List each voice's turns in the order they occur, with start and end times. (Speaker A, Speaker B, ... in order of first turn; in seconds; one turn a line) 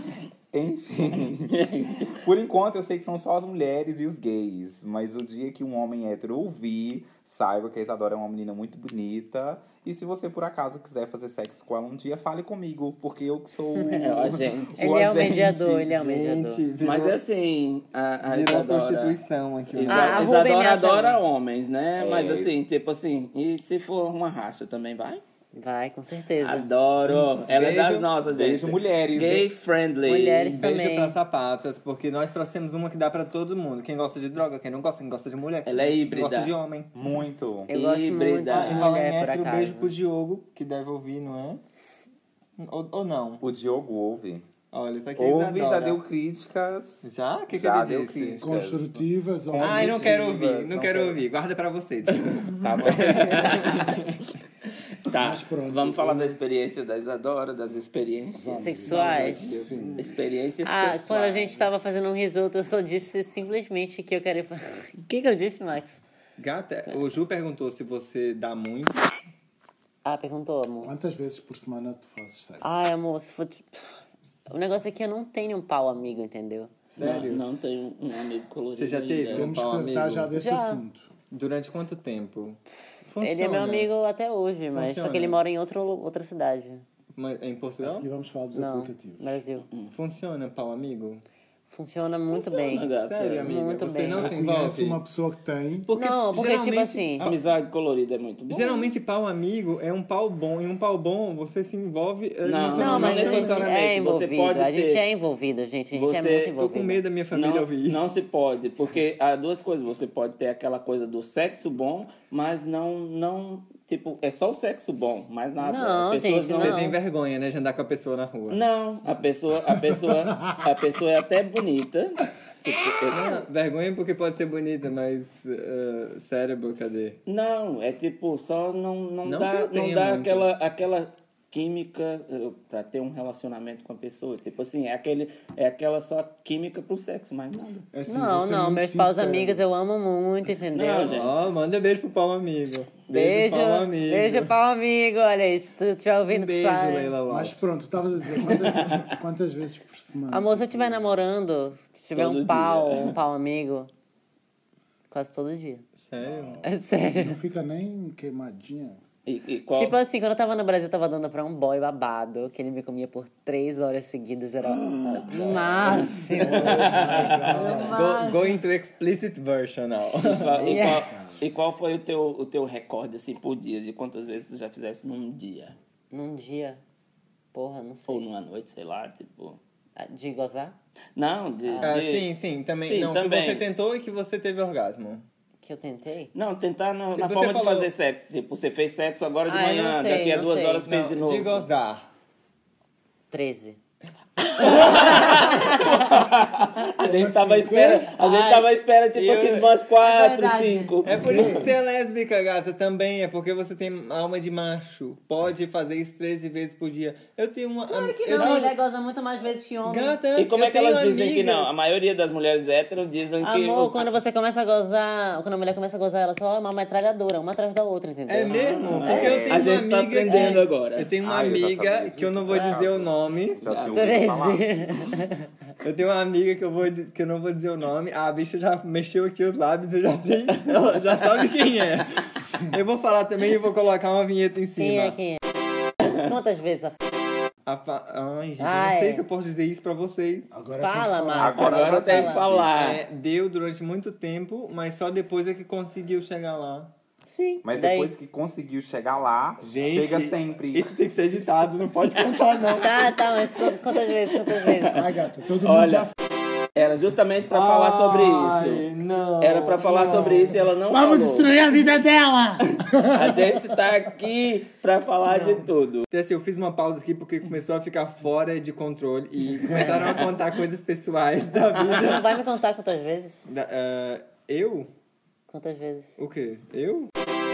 Speaker A: 0.5-15.8
Speaker B: 1.1-2.1
Speaker C: 13.7-14.2
Speaker B: 13.9-15.6
Speaker C: 14.8-16.6
Speaker D: 15.8-17.2
Speaker B: 16.8-19.2
Speaker D: 18.2-20.2
Speaker B: 19.7-25.2
Speaker C: 19.9-21.2
Speaker A: 22.0-22.5
Speaker C: 25.5-26.7
Speaker B: 26.4-30.6
Speaker D: 27.1-28.1
Speaker A: 28.3-29.5
Speaker C: 30.0-31.2
Speaker D: 30.5-36.9
Speaker B: 35.6-36.5
Speaker A: 36.9-37.7
Speaker C: 37.7-39.9
Speaker B: 37.7-38.9
Speaker D: 38.5-41.6
Speaker D: 42.6-43.4
Speaker A: 43.4-44.4
Speaker D: 44.7-46.0
Speaker A: 45.2-51.2
Speaker D: 47.0-48.5
Speaker E: 48.4-50.4
Speaker D: 49.6-54.2
Speaker A: 52.6-53.8
Speaker B: 52.7-54.0
Speaker B: 55.0-61.6
Speaker E: 55.1-56.4
Speaker E: 58.3-60.1
Speaker C: 58.5-59.7
Speaker D: 58.9-59.9
Speaker C: 60.6-66.0
Speaker D: 66.4-69.1
Speaker C: 70.0-70.9
Speaker E: 70.8-72.8
Speaker C: 72.6-73.8
Speaker C: 74.5-76.8
Speaker D: 76.9-77.4
Speaker B: 77.0-79.5
Speaker D: 78.8-80.3
Speaker E: 79.3-81.1
Speaker C: 80.3-80.8
Speaker D: 81.3-83.9
Speaker C: 83.2-86.8
Speaker D: 84.7-85.4
Speaker D: 87.2-88.0
Speaker E: 87.8-89.4
Speaker C: 88.5-89.7
Speaker D: 89.9-91.2
Speaker C: 91.7-94.3
Speaker B: 92.3-93.5
Speaker D: 92.8-95.0
Speaker E: 94.2-95.9
Speaker D: 95.8-97.1
Speaker C: 95.9-97.3
Speaker B: 97.2-98.9
Speaker D: 98.5-103.7
Speaker B: 102.4-105.0
Speaker C: 102.7-107.0
Speaker B: 105.9-106.7
Speaker D: 106.6-108.0
Speaker B: 107.3-116.8
Speaker C: 115.6-117.0
Speaker D: 116.5-118.6
Speaker B: 118.5-123.4
Speaker D: 123.1-127.2
Speaker B: 127.3-137.9
Speaker D: 129.2-130.5
Speaker E: 137.9-139.6
Speaker C: 138.1-141.2
Speaker B: 140.7-141.4
Speaker D: 141.1-144.5
Speaker C: 143.1-147.2
Speaker D: 146.3-147.7
Speaker E: 147.3-151.1
Speaker B: 148.5-149.1
Speaker C: 150.3-153.9
Speaker B: 152.1-153.2
Speaker C: 155.1-155.8
Speaker D: 155.9-156.6
Speaker E: 156.2-159.0
Speaker C: 156.6-157.4
Speaker B: 159.2-160.0
Speaker C: 159.7-168.6
Speaker D: 165.1-166.0
Speaker B: 165.3-167.9
Speaker E: 165.5-168.1
Speaker D: 166.6-167.3
Speaker D: 167.9-170.5
Speaker B: 170.2-175.8
Speaker C: 170.6-171.1
Speaker E: 170.6-171.4
Speaker C: 176.1-176.8
Speaker C: 177.5-178.3
Speaker B: 178.1-179.6
Speaker C: 180.0-180.7
Speaker B: 181.2-182.3
Speaker C: 181.7-181.9
Speaker D: 181.8-185.2
Speaker B: 182.8-183.7
Speaker C: 185.6-186.3
Speaker B: 186.3-191.6
Speaker D: 187.1-187.9
Speaker C: 189.5-190.9
Speaker D: 190.8-192.1
Speaker C: 193.3-193.8
Speaker C: 194.6-196.2
Speaker B: 194.6-201.1
Speaker D: 194.6-194.9
Speaker E: 197.0-198.1
Speaker D: 198.2-198.6
Speaker D: 199.1-199.7
Speaker C: 200.0-200.9
Speaker D: 201.0-208.7
Speaker E: 201.1-201.7
Speaker C: 207.9-210.2
Speaker B: 208.3-208.7
Speaker D: 209.8-211.7
Speaker B: 210.3-214.1
Speaker C: 213.4-219.4
Speaker D: 218.3-223.6
Speaker B: 218.5-221.1
Speaker A: 219.1-219.7
Speaker A: 221.2-225.0
Speaker C: 222.5-222.8
Speaker B: 223.6-223.9
Speaker C: 223.9-225.5
Speaker D: 225.8-235.2
Speaker C: 234.8-235.4
Speaker C: 236.0-237.0
Speaker D: 237.7-240.5
Speaker C: 238.6-239.2
Speaker E: 240.5-241.7
Speaker C: 240.8-242.4
Speaker A: 241.4-242.7
Speaker B: 241.5-243.0
Speaker D: 242.7-246.9
Speaker C: 247.3-248.1
Speaker A: 247.6-250.9
Speaker D: 249.6-253.2
Speaker C: 252.7-255.0
Speaker B: 254.6-255.0
Speaker E: 254.9-256.1
Speaker B: 255.6-256.1
Speaker B: 256.7-258.9
Speaker D: 257.5-260.5
Speaker B: 259.4-261.5
Speaker E: 260.9-263.7
Speaker B: 262.7-266.1
Speaker D: 265.2-272.3
Speaker C: 269.7-270.2
Speaker C: 271.8-273.4
Speaker D: 273.5-274.9
Speaker C: 275.5-276.1
Speaker D: 276.2-277.1